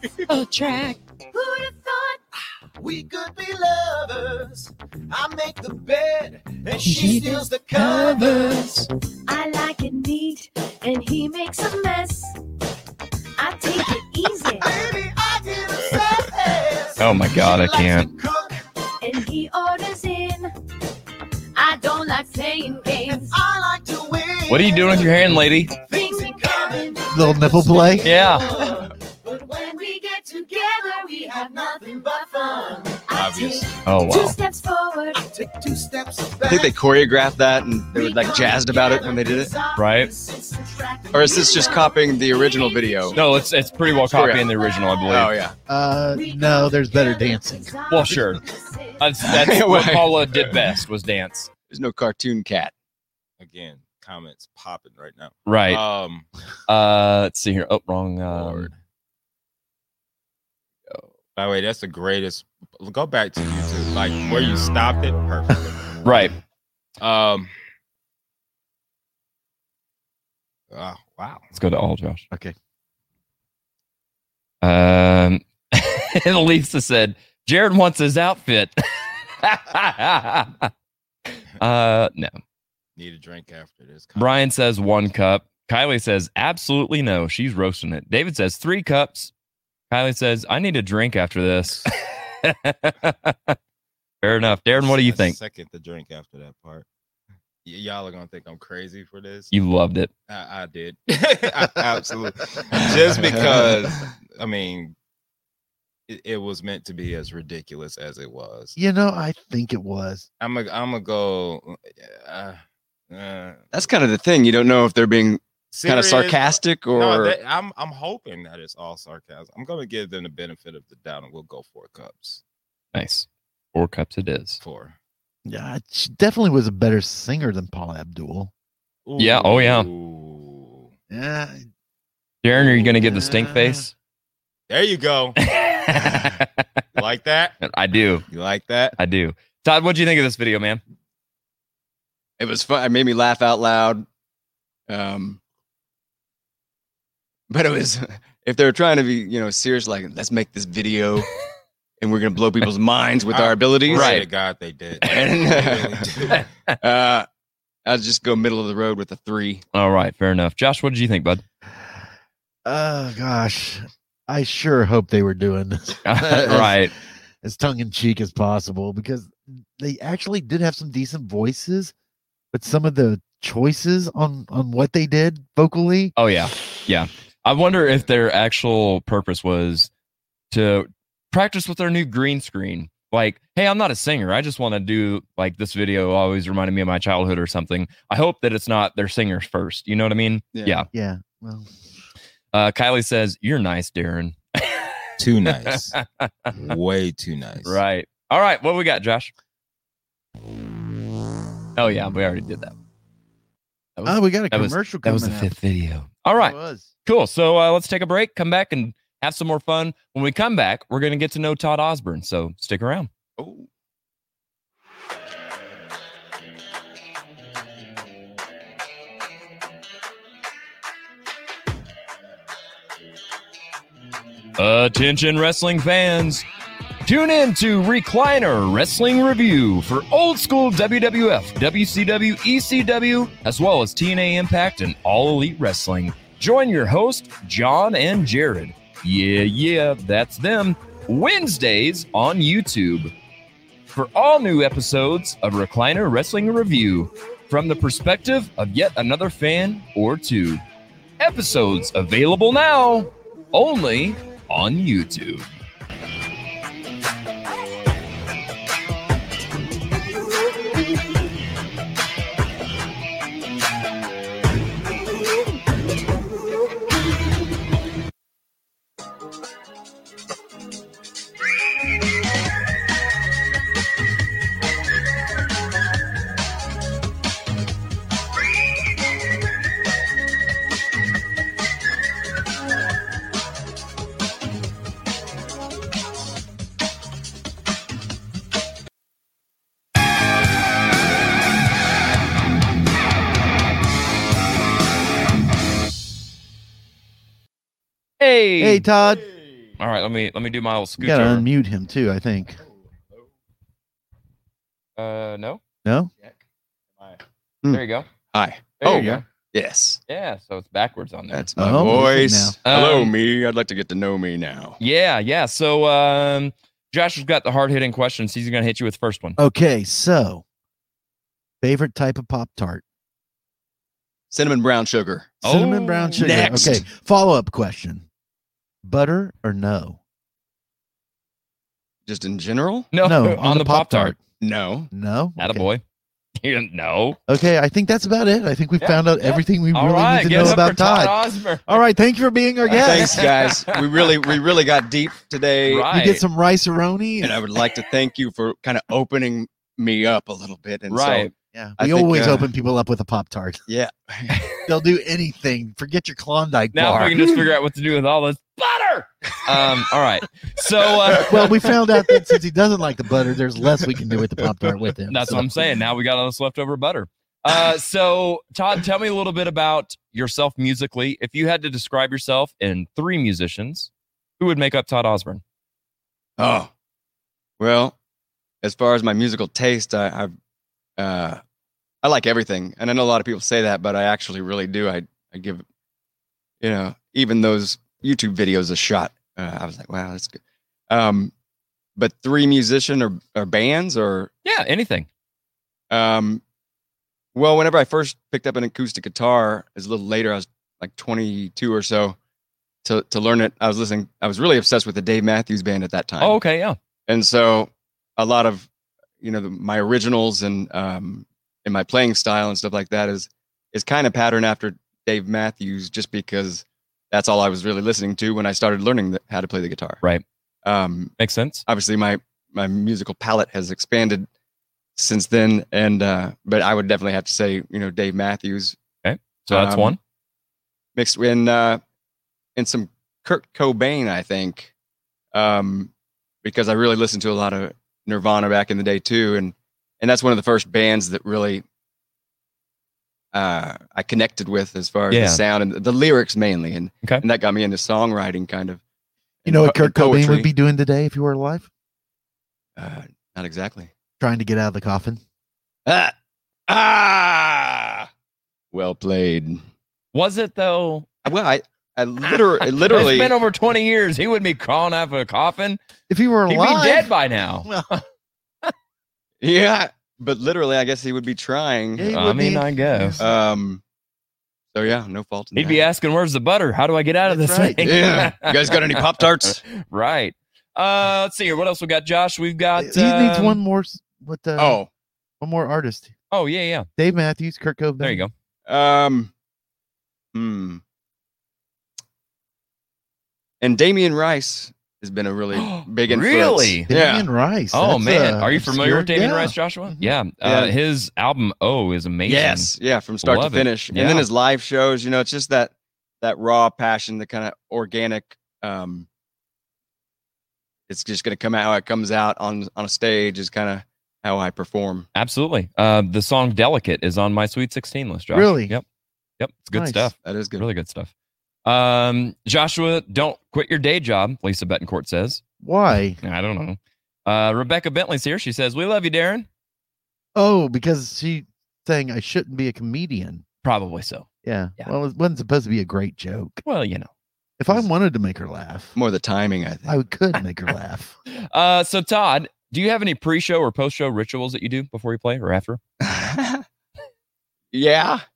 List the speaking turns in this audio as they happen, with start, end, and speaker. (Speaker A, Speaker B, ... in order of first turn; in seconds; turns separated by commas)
Speaker A: 0.6-0.9, Speaker B: 1.3-2.1, Speaker B: 2.8-8.8, Speaker A: 7.8-8.7, Speaker C: 9.3-12.3, Speaker C: 13.4-14.6, Speaker B: 13.7-18.6, Speaker A: 17.0-18.1, Speaker C: 19.1-20.5, Speaker C: 21.6-23.2, Speaker B: 22.9-33.2, Speaker A: 24.5-25.8, Speaker D: 27.1-28.1, Speaker A: 28.0-28.5, Speaker E: 33.1-33.8, Speaker C: 33.3-35.1, Speaker A: 33.9-34.4, Speaker B: 35.1-37.1, Speaker F: 36.5-39.5, Speaker B: 38.0-41.5, Speaker A: 39.8-40.1, Speaker F: 41.1-43.2, Speaker C: 41.3-43.5, Speaker A: 43.1-45.4, Speaker F: 44.1-44.5, Speaker C: 44.6-45.1, Speaker F: 45.1-45.5, Speaker D: 45.7-47.8, Speaker C: 46.5-49.2, Speaker A: 47.9-48.4, Speaker A: 49.0-51.5, Speaker F: 49.2-50.6, Speaker F: 51.7-52.7, Speaker E: 53.4-56.3, Speaker A: 55.5-55.8, Speaker A: 56.7-58.7, Speaker E: 58.3-58.8, Speaker E: 61.4-66.1, Speaker A: 66.0-66.3, Speaker E: 67.0-67.5, Speaker E: 70.7-71.5, Speaker A: 71.5-72.2, Speaker A: 74.6-80.7, Speaker A: 81.6-82.4, Speaker E: 83.0-84.4, Speaker A: 84.2-89.3, Speaker A: 89.9-93.6, Speaker A: 94.2-95.4, Speaker E: 94.7-96.8, Speaker E: 97.7-99.5, Speaker A: 99.5-100.1, Speaker E: 100.3-104.9, Speaker F: 102.7-104.0, Speaker E: 106.1-108.8, Speaker D: 108.8-110.3, Speaker E: 110.4-113.8, Speaker F: 113.7-117.4, Speaker E: 115.7-122.4, Speaker A: 122.9-124.6, Speaker E: 124.6-125.0, Speaker D: 125.5-128.5, Speaker E: 129.1-130.9, Speaker A: 129.2-129.9, Speaker D: 131.1-131.7, Speaker A: 132.4-133.9, Speaker D: 132.6-133.9, Speaker E: 134.7-135.4, Speaker A: 135.4-136.7, Speaker E: 135.9-136.3, Speaker E: 137.0-137.6, Speaker A: 137.6-138.2, Speaker E: 138.3-139.0, Speaker A: 139.0-140.8, Speaker F: 142.4-144.1, Speaker F: 144.9-145.4, Speaker F: 147.5-151.3, Speaker F: 152.0-154.2, Speaker E: 153.3-156.5, Speaker A: 153.9-154.3, Speaker F: 155.0-156.1, Speaker F: 156.8-157.3, Speaker F: 157.9-159.6, Speaker A: 159.7-161.4, Speaker D: 162.7-166.9, Speaker A: 166.1-166.9, Speaker D: 167.4-171.9, Speaker D: 172.5-176.1, Speaker A: 176.2-179.9, Speaker A: 180.5-190.9, Speaker F: 190.5-190.8, Speaker D: 190.9-191.7, Speaker A: 192.5-194.9, Speaker E: 195.2-196.0, Speaker A: 195.5-196.7, Speaker E: 196.6-197.8, Speaker A: 197.6-199.3, Speaker A: 201.8-202.7, Speaker A: 204.0-213.1, Speaker D: 204.1-205.5, Speaker D: 206.3-206.9, Speaker F: 213.4-213.6, Speaker A: 224.6-226.4, Speaker A: 227.1-243.1, Speaker A: 243.9-250.6, Speaker A: 251.2-255.5, Speaker A: 298.2-298.9, Speaker D: 298.6-299.3, Speaker A: 299.8-301.5, Speaker D: 301.0-302.6, Speaker A: 305.0-305.6, Speaker D: 305.9-306.1, Speaker A: 307.7-308.1, Speaker F: 308.3-310.0, Speaker A: 308.8-309.2, Speaker D: 308.9-309.2, Speaker A: 310.1-311.9, Speaker F: 311.3-314.8, Speaker D: 311.6-312.6, Speaker A: 312.7-313.1, Speaker A: 314.8-319.4, Speaker D: 319.4-320.4, Speaker D: 321.6-322.8, Speaker F: 324.3-325.4, Speaker D: 325.4-328.1, Speaker A: 325.4-326.7, Speaker F: 326.2-326.8, Speaker D: 328.8-330.0, Speaker F: 332.1-332.9, Speaker A: 332.9-334.1, Speaker D: 333.0-334.2, Speaker F: 334.4-334.9, Speaker D: 334.9-335.7, Speaker A: 335.4-335.8, Speaker A: 336.4-337.2, Speaker D: 337.3-343.2, Speaker A: 338.8-341.8, Speaker A: 342.7-344.1, Speaker F: 342.8-345.9, Speaker A: 345.7-346.2, Speaker D: 345.9-347.4, Speaker F: 347.2-352.5, Speaker A: 350.9-351.3, Speaker D: 351.5-353.6, Speaker F: 353.7-354.4, Speaker D: 354.7-357.2, Speaker A: 356.7-361.5, Speaker D: 361.2-365.6, Speaker A: 365.1-375.4, Speaker F: 376.4-376.7, Speaker F: 377.6-377.9, Speaker F: 378.6-380.3, Speaker F: 381.0-381.4, Speaker F: 382.0-385.6, Speaker F: 386.6-391.3, Speaker F: 392.0-394.3, Speaker A: 394.4-395.1, Speaker F: 395.9-396.4, Speaker F: 397.4-402.2, Speaker F: 402.8-406.4, Speaker A: 406.2-406.8, Speaker F: 407.1-408.7, Speaker F: 409.2-420.0, Speaker F: 420.6-421.1, Speaker A: 421.2-421.6, Speaker F: 421.7-424.3, Speaker F: 425.0-428.8, Speaker A: 429.0-430.0, Speaker F: 429.5-430.0, Speaker F: 431.0-431.8, Speaker F: 432.6-434.7, Speaker F: 435.3-435.9, Speaker F: 436.4-441.6, Speaker F: 443.3-448.8, Speaker A: 445.1-445.4, Speaker F: 449.4-450.5, Speaker D: 449.5-451.7, Speaker F: 452.8-453.9, Speaker D: 454.2-455.2, Speaker F: 455.9-456.1, Speaker F: 456.7-458.1, Speaker F: 458.7-459.6, Speaker A: 460.1-461.1, Speaker F: 461.2-463.4, Speaker A: 462.3-465.8, Speaker D: 466.1-467.1, Speaker A: 466.5-467.7, Speaker D: 467.6-467.9, Speaker F: 469.4-472.1, Speaker D: 472.0-473.4, Speaker A: 472.1-473.2, Speaker F: 473.2-473.8, Speaker F: 474.7-475.8, Speaker A: 475.6-483.6, Speaker D: 477.3-477.9, Speaker F: 477.8-479.6, Speaker D: 482.8-484.8, Speaker F: 484.6-484.9, Speaker D: 485.4-486.1, Speaker A: 486.3-486.9, Speaker D: 487.0-488.3, Speaker A: 488.0-488.3, Speaker F: 488.7-489.3, Speaker F: 490.3-490.8, Speaker F: 493.6-497.3, Speaker A: 495.5-496.9, Speaker D: 496.9-500.1, Speaker A: 497.7-502.7, Speaker F: 500.4-500.7, Speaker F: 502.3-509.1, Speaker A: 503.2-504.2, Speaker F: 510.9-515.1, Speaker A: 515.1-518.8, Speaker D: 518.3-518.8, Speaker A: 519.4-521.1, Speaker D: 519.7-520.1, Speaker F: 520.2-520.6, Speaker A: 521.6-525.4, Speaker D: 525.6-526.2, Speaker A: 526.2-529.5, Speaker D: 530.4-533.4, Speaker A: 533.6-534.3, Speaker D: 534.4-536.6, Speaker A: 536.6-537.1, Speaker D: 537.6-538.9, Speaker F: 539.0-540.0, Speaker D: 539.9-541.1, Speaker A: 541.3-545.8, Speaker F: 546.0-546.6, Speaker F: 547.7-548.2